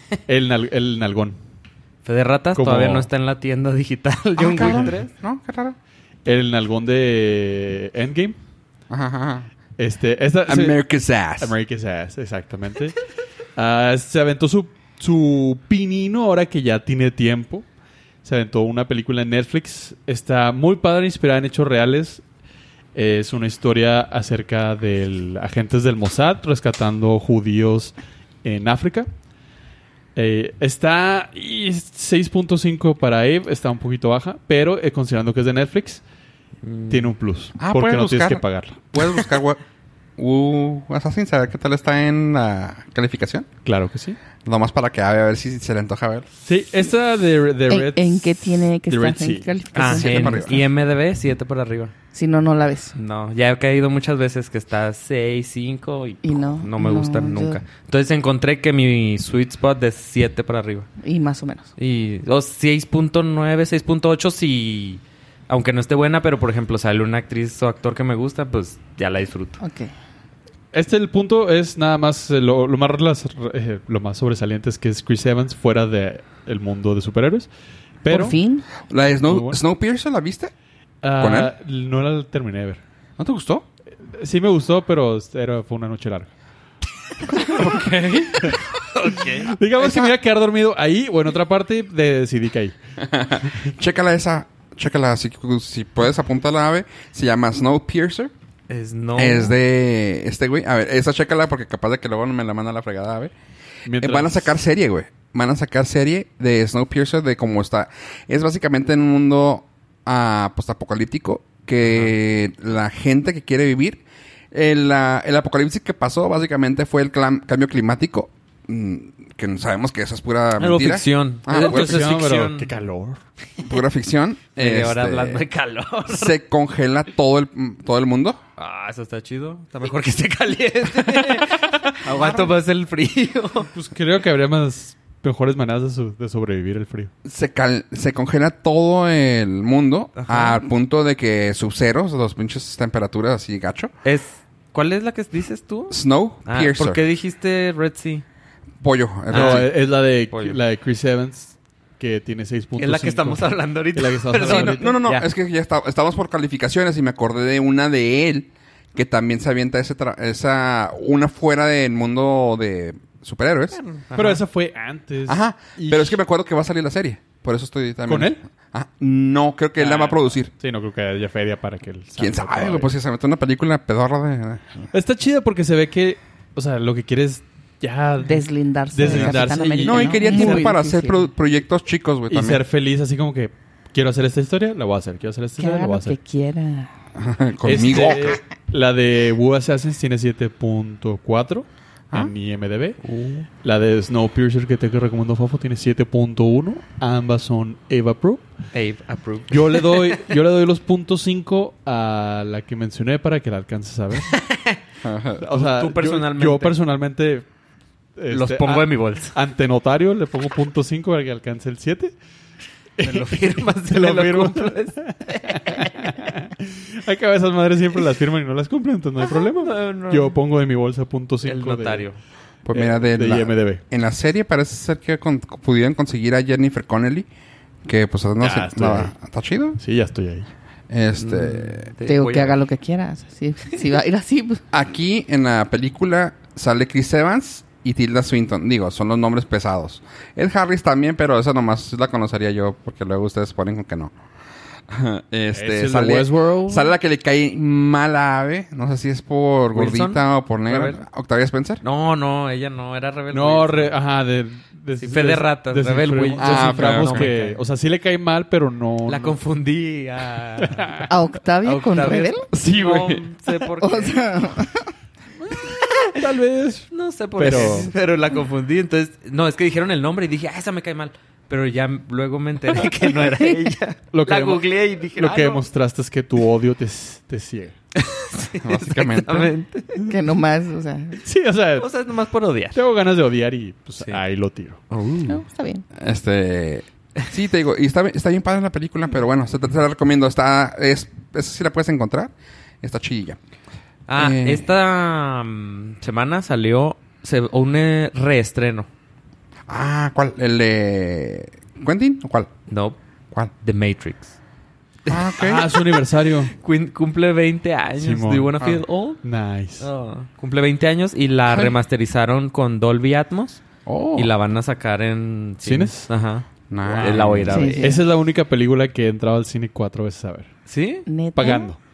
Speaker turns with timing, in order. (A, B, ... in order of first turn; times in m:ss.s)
0:00.3-0:01.4 A
0:02.0-0:05.1 B
0:02.6-0:03.1 A
0:04.4-0:05.8 C
0:04.6-0:04.9 A
0:06.2-0:08.4 A
0:08.9-0:09.5 C
0:09.8-0:10.8 A
0:10.4-0:11.5 C
0:11.4-0:13.0 A
0:13.6-0:17.6 A
0:18.2-0:22.2 A
0:22.9-0:29.1 A
0:30.1-0:36.0 A
0:36.6-0:37.1 B
0:36.9-0:39.3 A
0:37.6-0:39.6 C
0:40.2-0:43.5 C
0:43.6-0:44.2 A
0:44.4-0:46.3 C
0:46.4-0:49.5 A
0:47.7-0:50.6 D
0:49.7-0:51.9 B
0:49.8-0:50.6 C
0:52.1-0:52.9 D
0:52.9-1:00.9 B
0:56.2-0:57.6 D
1:01.0-1:01.7 D
1:01.8-1:09.6 B
1:09.6-1:09.9 D
1:10.7-1:17.5 A
1:18.0-1:18.4 A
1:18.1-1:18.6 D
1:18.9-1:20.5 C
1:19.2-1:19.6 A
1:21.0-1:22.8 A
1:21.2-1:21.5 C
1:23.2-1:23.6 C
1:24.0-1:26.3 A
1:27.3-1:28.6 C
1:28.9-1:29.5 B
1:29.1-1:32.7 A
1:29.8-1:30.1 C
1:33.0-1:38.3 C
1:38.7-1:39.5 B
1:39.1-1:43.3 C
1:43.8-1:44.5 A
1:43.9-2:02.1 C
2:00.6-2:02.7 B
2:01.5-2:03.2 A
2:03.6-2:05.4 C
2:04.6-2:06.4 B
2:06.1-2:08.4 C
2:08.6-2:13.7 B
2:12.0-2:12.6 C
2:13.7-2:17.1 A
2:17.2-2:23.9 C
2:20.2-2:20.6 B
2:24.0-2:28.2 B
2:25.9-2:27.0 C
2:28.8-2:29.7 C
2:29.3-2:29.7 B
2:29.3-2:35.0 A
2:30.3-2:30.6 B
2:32.8-2:35.3 B
2:34.4-2:43.8 C
2:43.7-2:44.4 B
2:44.1-2:46.2 A
2:45.3-2:50.5 C
2:48.1-2:48.4 A
2:49.8-2:52.9 A
2:52.2-2:54.9 C
2:54.9-3:00.7 A
2:58.2-3:01.3 D
2:59.0-3:02.6 C
3:02.3-3:06.2 A
3:05.6-3:06.9 D
3:07.1-3:08.4 C
3:07.6-3:13.0 A
3:13.0-3:13.4 B
3:13.5-3:18.4 A
3:18.7-3:20.3 B
3:19.5-3:24.3 A
3:24.3-3:24.8 B
3:25.0-3:25.4 C
3:25.4-3:27.5 A
3:25.5-3:26.8 B
3:28.2-3:32.1 A
3:28.3-3:29.3 B
3:33.0-3:42.0 A
3:33.0-3:36.2 B
3:39.2-3:40.3 B
3:41.4-3:42.2 B
3:42.6-3:47.3 C
3:42.7-3:43.8 A
3:47.8-3:49.8 C
3:48.4-3:49.1 A
3:49.8-3:50.5 A
3:50.9-3:51.9 C
3:51.2-3:52.6 B
3:52.0-3:54.6 D
3:54.7-4:04.1 C
4:04.9-4:11.8 C
4:05.5-4:06.9 A
4:09.7-4:11.0 B
4:11.8-4:14.0 B
4:13.3-4:19.4 A
4:15.0-4:17.6 B
4:16.4-4:17.3 C
4:19.1-4:21.0 B
4:20.6-4:21.1 A
4:21.1-4:22.4 D
4:21.6-4:24.3 B
4:22.5-4:23.2 C
4:23.8-4:24.9 D
4:25.4-4:27.9 A
4:25.7-4:26.2 B
4:26.9-4:35.6 B
4:34.1-4:34.6 A
4:35.1-4:37.7 A
4:37.9-4:40.0 B
4:38.6-4:39.5 C
4:40.0-4:41.2 D
4:41.2-4:41.9 A
4:41.8-4:42.8 B
4:42.7-4:44.8 A
4:44.9-4:45.4 B
4:45.3-4:45.8 D
4:46.0-4:53.4 C
4:54.1-4:58.9 B
4:54.1-4:54.6 C
4:59.7-5:02.5 C
5:02.7-5:03.0 B
5:03.6-5:04.3 B
5:05.0-5:09.2 B
5:05.1-5:05.7 C
5:05.4-5:06.5 A
5:08.0-5:08.7 A
5:09.2-5:09.8 A
5:09.8-5:13.6 B
5:11.5-5:11.8 C
5:13.8-5:14.3 C
5:14.1-5:18.0 B
5:15.6-5:16.1 A
5:16.7-5:17.8 C
5:16.8-5:20.5 A
5:17.5-5:18.0 D
5:20.7-5:21.0 B
5:21.0-5:21.7 D
5:21.3-5:21.8 A